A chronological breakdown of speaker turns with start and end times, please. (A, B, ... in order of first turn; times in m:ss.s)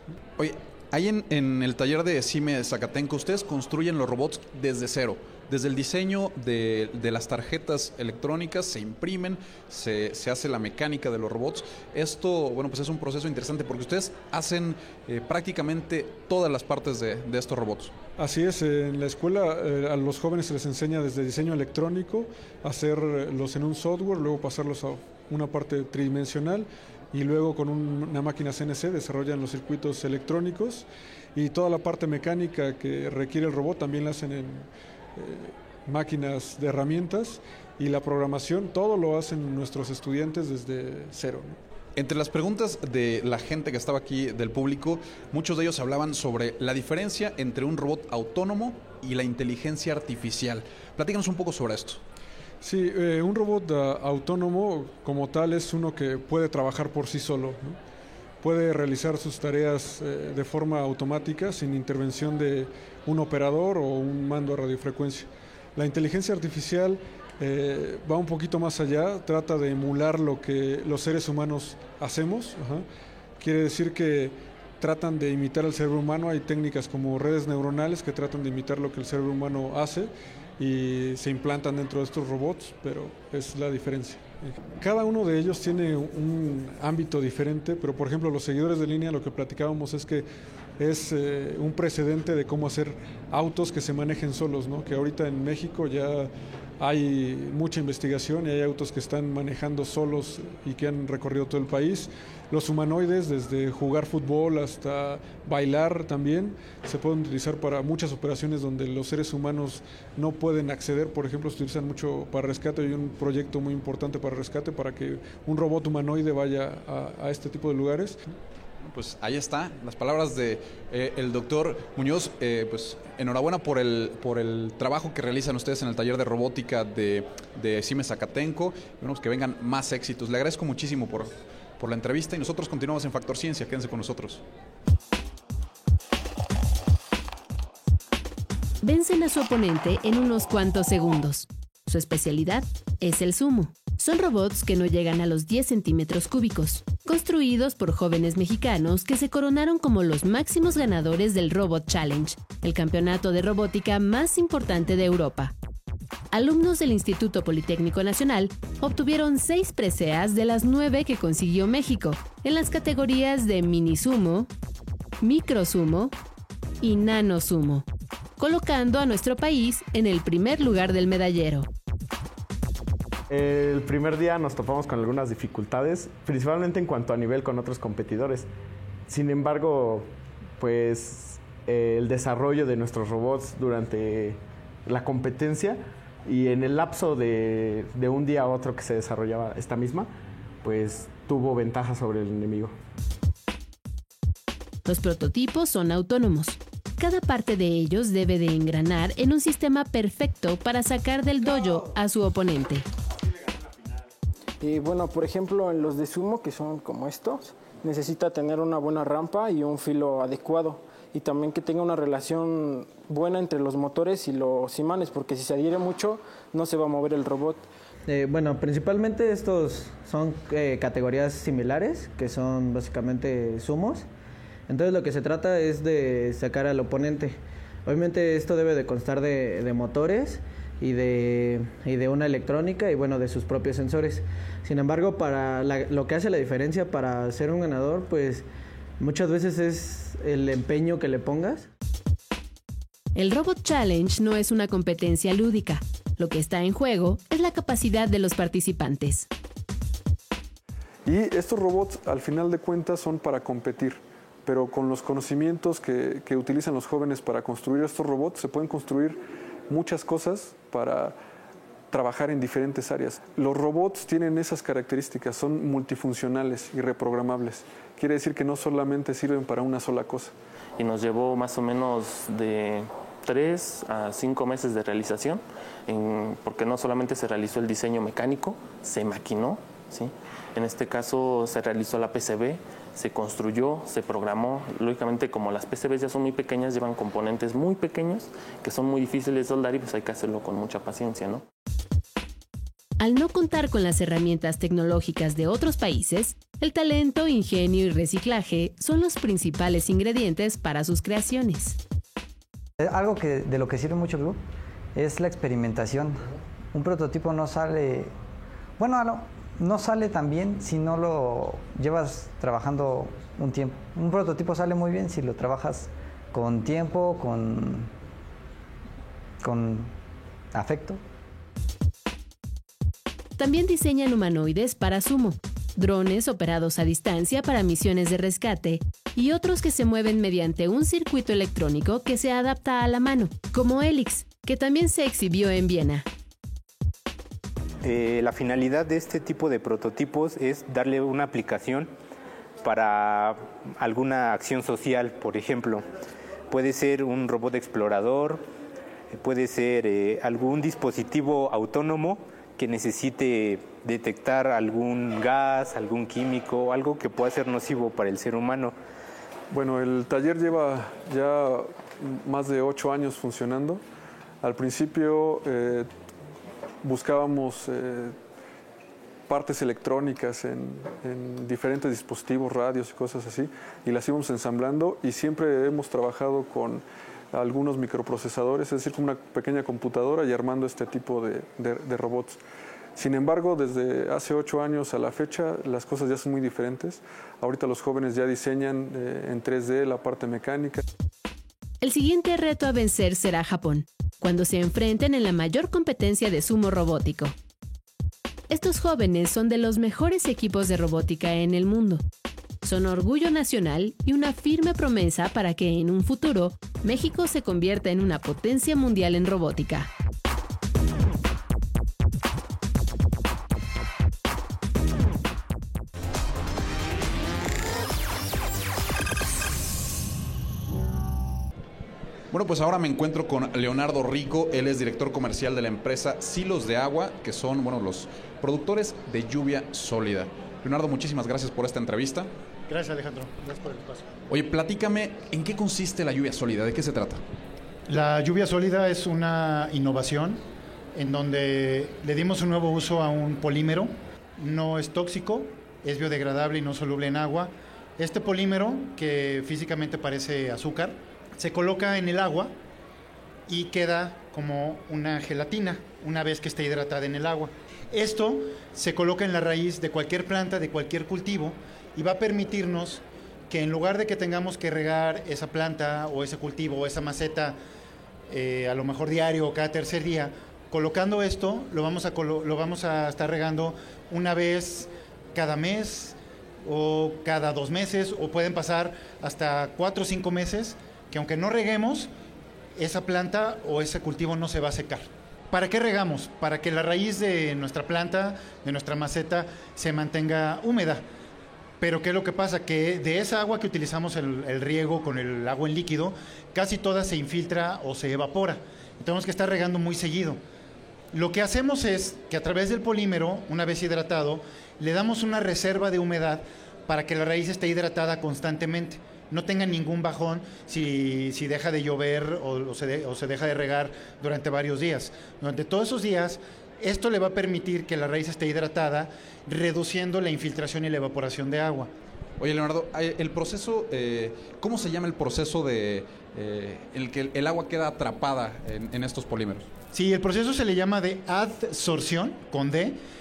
0:00.4-0:17.9 A
0:18.2-0:41.6 B
0:42.0-0:52.0 A
0:52.6-0:57.8 B
0:58.4-1:12.8 B
1:13.4-1:30.2 B
1:30.8-1:58.2 B
1:58.8-2:14.4 A
2:18.8-2:35.5 C
2:36.3-2:44.5 C
2:45.2-2:46.1 C
2:46.8-2:47.8 C
2:48.4-2:51.7 C
2:53.3-2:58.5 D
2:59.1-3:10.1 D
3:10.6-3:12.8 D
3:14.8-3:22.8 C
3:24.6-3:37.6 E
3:38.1-3:44.1 F
3:44.7-3:58.4 F
3:59.0-4:01.7 F
4:03.1-4:09.3 C
4:11.0-4:21.1 B
4:21.9-4:30.3 B
4:30.8-4:51.4 G
4:53.0-5:01.8 C
5:02.8-5:04.4 H
5:05.0-5:08.1 H
5:08.8-5:17.9 H
5:19.4-5:19.9 H
5:20.5-5:21.0 H
5:23.4-5:36.1 C
5:37.8-5:41.9 I
5:42.6-5:45.8 I
5:46.5-5:48.4 I
5:49.1-5:58.7 I
5:59.5-6:03.8 B
6:04.4-6:05.9 B
6:06.8-6:08.2 B
6:09.3-6:22.4 B
6:23.0-6:30.8 B
6:31.8-6:37.4 C
6:38.5-6:42.0 C
6:42.6-6:49.9 C
7:02.3-7:12.3 A
7:12.7-7:14.1 J
7:14.3-7:17.2 A
7:17.9-7:20.4 J
7:21.0-7:32.5 J
7:33.5-7:47.6 J
7:48.3-8:02.1 J
8:02.8-8:11.0 J
8:11.8-8:20.4 J
8:21.1-8:41.9 J
8:42.4-8:49.7 A
8:49.9-8:53.0 J